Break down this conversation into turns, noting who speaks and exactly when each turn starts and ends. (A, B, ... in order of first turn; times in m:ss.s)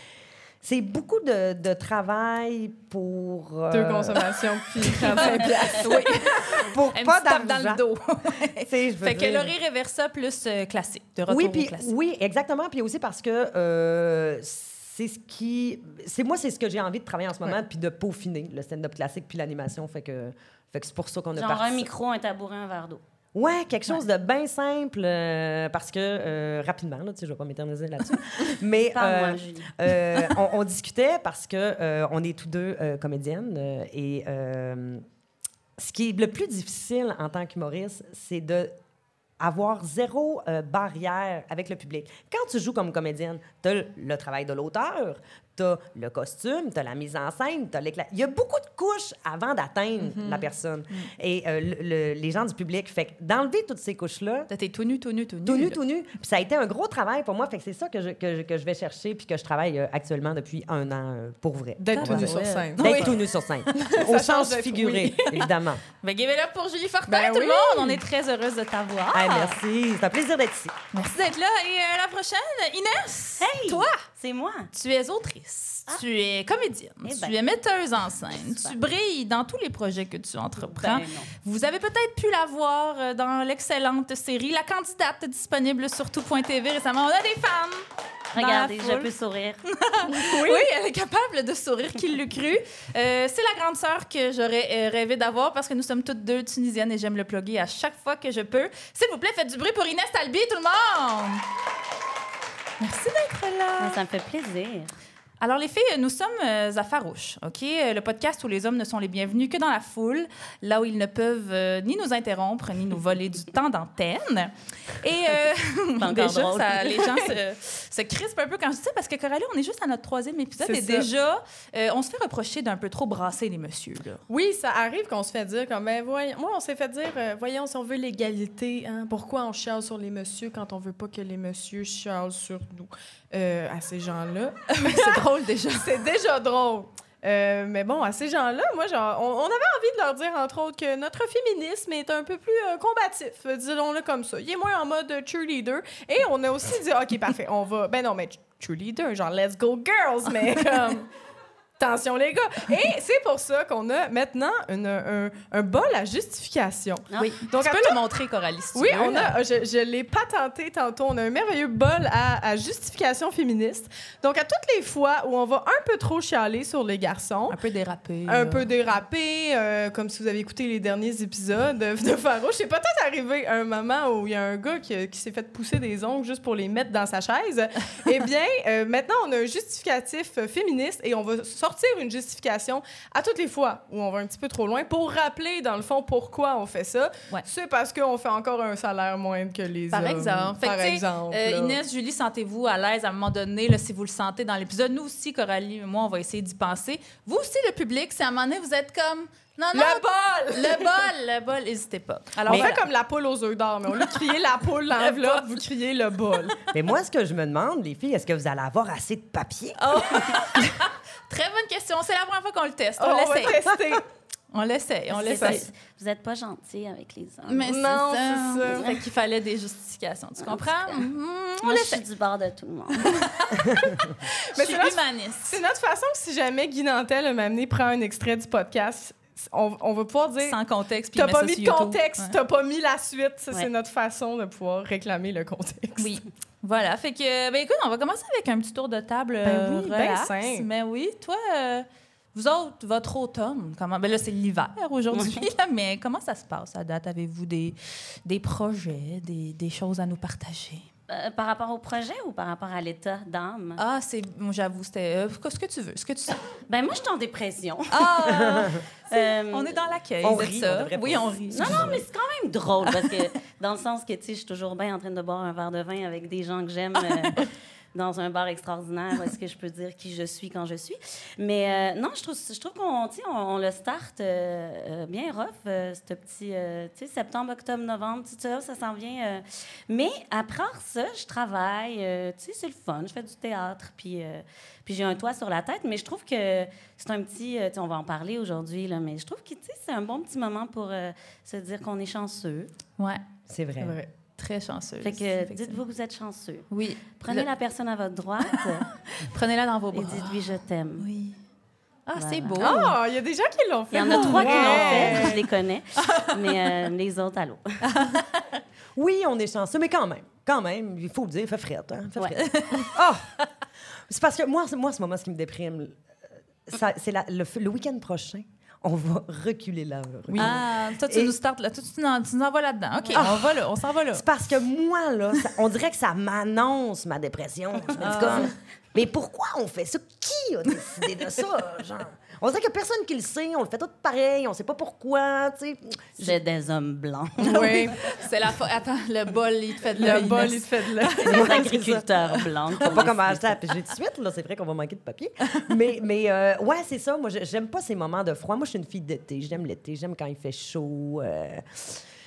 0:00.6-0:04.3 A
0:03.7-0:06.1 B
0:05.0-0:11.9 C
0:06.5-0:07.8 A
0:08.6-0:09.5 A
0:11.3-0:21.9 A
0:21.4-0:23.0 D
0:23.4-0:35.0 A
0:28.9-0:29.7 D
0:35.8-0:38.7 A
0:39.4-0:54.5 A
0:50.1-0:50.5 B
0:54.5-0:55.8 C
0:55.5-1:05.8 A
1:01.8-1:03.2 B
1:01.9-1:03.9 C
1:03.8-1:05.5 B
1:06.0-1:09.6 C
1:07.1-1:08.0 B
1:09.1-1:10.8 A
1:10.9-1:14.0 C
1:13.4-1:14.7 D
1:14.7-1:29.1 C
1:17.0-1:17.4 D
1:18.3-1:18.8 D
1:20.6-1:21.3 D
1:28.3-1:29.6 D
1:29.7-1:41.4 C
1:30.1-1:30.7 B
1:42.8-1:44.0 C
1:43.8-1:44.9 D
1:45.4-2:04.2 C
1:56.0-1:57.4 D
2:00.6-2:01.1 B
2:04.3-2:31.1 B
2:14.7-2:15.9 C
2:31.8-2:38.0 B
2:37.1-2:37.4 D
2:37.4-2:39.4 C
2:38.8-2:47.6 B
2:47.5-2:48.7 C
2:48.3-3:11.8 B
3:09.9-3:22.9 C
3:19.7-3:21.1 B
3:22.5-3:26.6 B
3:25.0-3:25.7 C
3:26.7-3:30.4 A
3:29.8-3:33.6 C
3:33.0-3:34.1 B
3:34.5-3:35.7 C
3:35.1-3:37.7 D
3:35.2-3:35.6 B
3:37.5-3:42.0 C
3:37.6-3:38.9 B
3:40.4-3:41.1 D
3:41.6-3:43.1 D
3:43.0-3:45.6 C
3:44.5-3:50.6 B
3:50.4-3:52.4 C
3:51.2-3:56.1 B
3:56.0-4:10.9 C
3:59.4-4:00.7 B
4:05.1-4:05.4 D
4:11.1-4:13.8 D
4:13.8-4:16.4 C
4:16.7-4:18.5 D
4:17.9-4:22.0 C
4:18.4-4:18.8 A
4:19.1-4:19.9 D
4:20.2-4:22.0 A
4:21.5-4:52.7 D
4:22.9-4:23.2 C
4:53.5-4:54.0 A
4:53.8-4:54.1 B
4:54.4-4:55.8 C
4:55.0-4:56.7 D
4:56.7-4:57.5 C
4:57.2-4:58.9 D
4:59.1-5:00.4 C
4:59.9-5:01.1 D
5:01.0-5:01.4 C
5:02.1-5:03.0 C
5:02.2-5:02.8 D
5:02.6-5:05.4 B
5:03.9-5:07.8 D
5:04.1-5:05.4 C
5:06.0-5:06.3 C
5:07.9-5:08.4 C
5:09.0-5:13.3 A
5:12.4-5:13.0 C
5:14.1-5:16.0 A
5:16.7-5:21.3 A
5:20.3-5:24.2 C
5:23.1-5:23.6 A
5:24.1-5:36.4 A
5:28.0-5:28.5 C
5:36.2-5:38.0 D
5:37.4-5:38.0 B
5:37.6-5:41.6 C
5:40.0-5:41.4 B
5:41.2-5:43.7 D
5:41.3-5:42.1 A
5:42.8-5:52.0 A